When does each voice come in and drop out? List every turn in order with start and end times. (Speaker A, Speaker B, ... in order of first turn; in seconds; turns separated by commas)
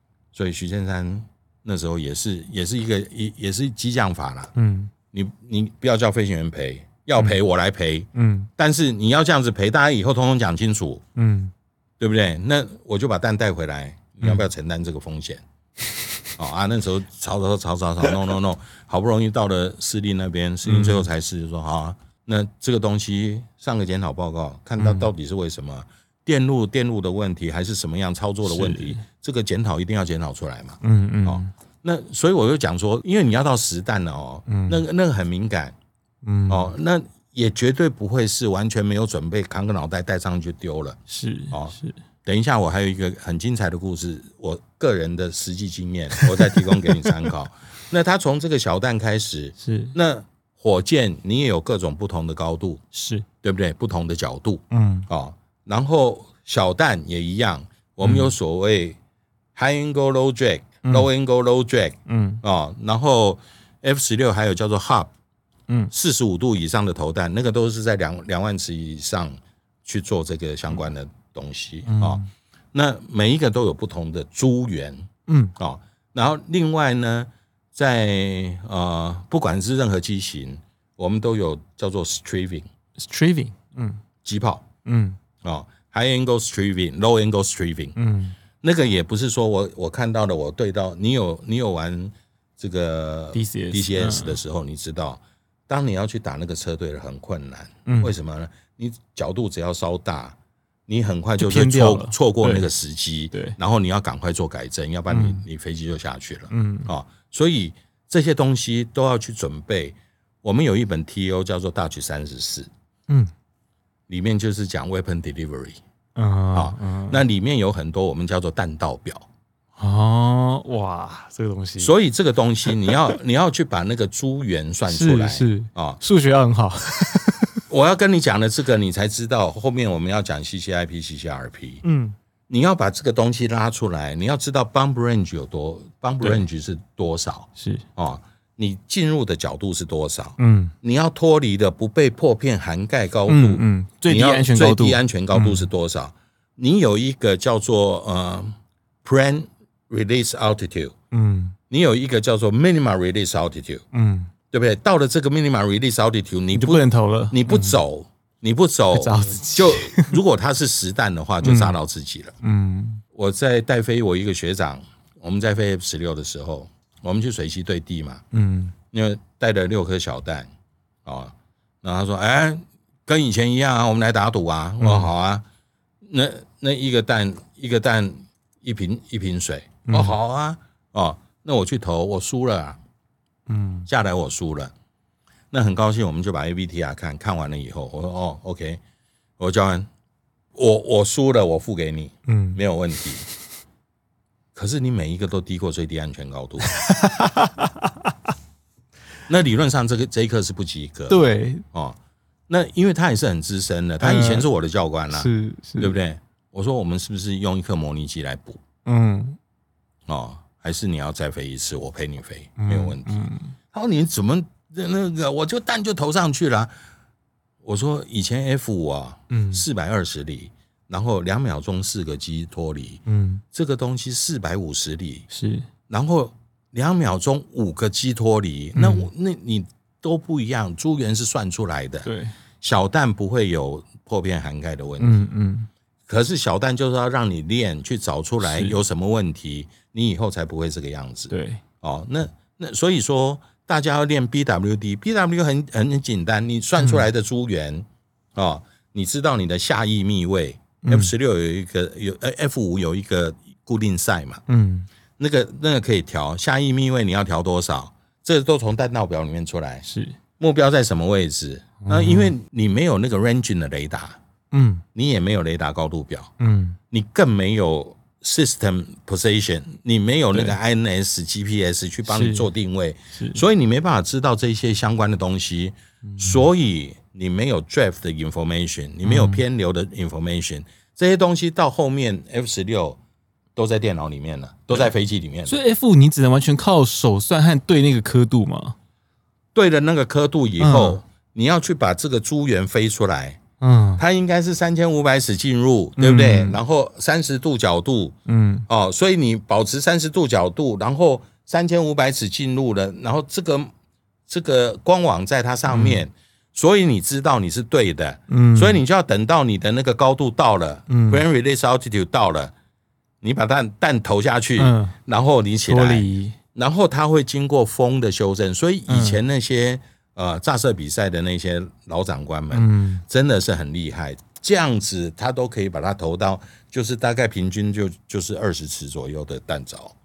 Speaker A: 0.3-4.5, Speaker B: 4.5-4.9, Speaker A: 5.1-11.0, Speaker B: 8.1-8.5, Speaker B: 11.2-11.5, Speaker A: 12.0-15.4, Speaker A: 16.4-35.7, Speaker B: 20.6-21.1, Speaker B: 24.8-25.1, Speaker B: 28.4-29.0, Speaker B: 30.8-31.5, Speaker B: 34.5-34.8, Speaker B: 36.2-36.7, Speaker A: 36.5-41.0, Speaker B: 41.1-42.0, Speaker A: 41.5-52.8, Speaker B: 46.2-47.2, Speaker B: 49.6-50.0, Speaker B: 52.9-53.2, Speaker A: 53.4-59.0, Speaker B: 54.7-55.1, Speaker B: 58.0-58.3, Speaker A: 59.5-65.1, Speaker B: 62.1-62.4, Speaker A: 65.9-72.2, Speaker B: 71.9-72.3, Speaker A: 72.7-82.7, Speaker B: 75.3-75.5, Speaker B: 83.0-84.0, Speaker A: 84.2-84.6, Speaker B: 84.8-85.2, Speaker A: 85.4-88.0, Speaker B: 88.0-88.3, Speaker A: 88.6-100.3, Speaker B: 93.3-94.4, Speaker B: 97.8-98.1, Speaker A: 100.9-112.7, Speaker B: 101.4-102.7, Speaker B: 103.3-103.6, Speaker B: 105.1-105.4, Speaker B: 106.5-106.9, Speaker A: 114.1-115.8, Speaker B: 116.2-117.2, Speaker A: 116.5-119.3, Speaker B: 119.8-121.9, Speaker A: 121.8-126.0, Speaker B: 122.7-123.1, Speaker B: 124.9-127.6, Speaker A: 127.7-131.8, Speaker B: 131.8-132.1, Speaker A: 132.5-150.9, Speaker B: 137.6-137.8, Speaker B: 140.4-140.7, Speaker B: 143.3-145.7, Speaker B: 151.1-151.5, Speaker A: 151.7-153.8, Speaker B: 153.9-154.3, Speaker A: 154.5-162.3, Speaker B: 156.5-157.8, Speaker B: 158.9-160.2, Speaker B: 161.4-161.8, Speaker B: 162.4-163.0, Speaker A: 163.1-168.2, Speaker B: 168.3-168.7, Speaker A: 168.9-170.5, Speaker A: 171.0-175.4, Speaker B: 174.8-175.1, Speaker A: 176.0-182.8, Speaker B: 179.9-180.2, Speaker B: 183.5-183.9, Speaker A: 183.9-184.7, Speaker A: 185.5-188.8, Speaker A: 189.4-189.9, Speaker A: 190.5-193.2, Speaker B: 192.3-192.6, Speaker A: 194.5-196.8, Speaker B: 196.6-198.1, Speaker A: 199.3-202.0, Speaker B: 201.1-201.6, Speaker A: 202.5-208.6, Speaker B: 204.0-204.5, Speaker B: 205.1-205.9, Speaker B: 208.8-209.4, Speaker A: 210.1-216.7, Speaker B: 212.6-213.5, Speaker A: 217.6-225.2, Speaker B: 219.3-219.6, Speaker B: 223.1-223.4, Speaker B: 225.3-225.7, Speaker A: 225.9-232.1, Speaker B: 228.7-229.1, Speaker B: 232.0-232.3, Speaker A: 232.6-235.2, Speaker B: 235.0-235.7, Speaker A: 236.1-254.4, Speaker B: 238.4-238.8, Speaker B: 241.3-241.6, Speaker B: 246.8-247.0, Speaker B: 250.8-251.1, Speaker B: 254.5-254.9, Speaker A: 255.2-259.9, Speaker B: 259.9-260.2, Speaker A: 260.4-264.2, Speaker B: 261.8-262.3, Speaker B: 264.5-264.8, Speaker A: 264.9-266.3, Speaker B: 266.4-266.8, Speaker A: 266.9-283.0, Speaker B: 272.1-272.5, Speaker B: 273.1-273.4, Speaker B: 276.1-276.4, Speaker B: 279.0-279.4, Speaker A: 283.6-285.6, Speaker B: 285.5-288.8, Speaker A: 289.5-293.4, Speaker B: 290.6-291.0, Speaker B: 293.6-294.0, Speaker A: 294.0-298.1, Speaker B: 296.0-296.6, Speaker B: 298.2-298.7, Speaker A: 298.7-303.7, Speaker A: 304.3-312.5, Speaker B: 305.7-306.0, Speaker B: 308.3-308.8, Speaker B: 310.9-311.2, Speaker A: 313.2-329.9, Speaker B: 314.6-314.9, Speaker B: 315.7-316.4, Speaker B: 318.9-319.2, Speaker B: 322.5-323.0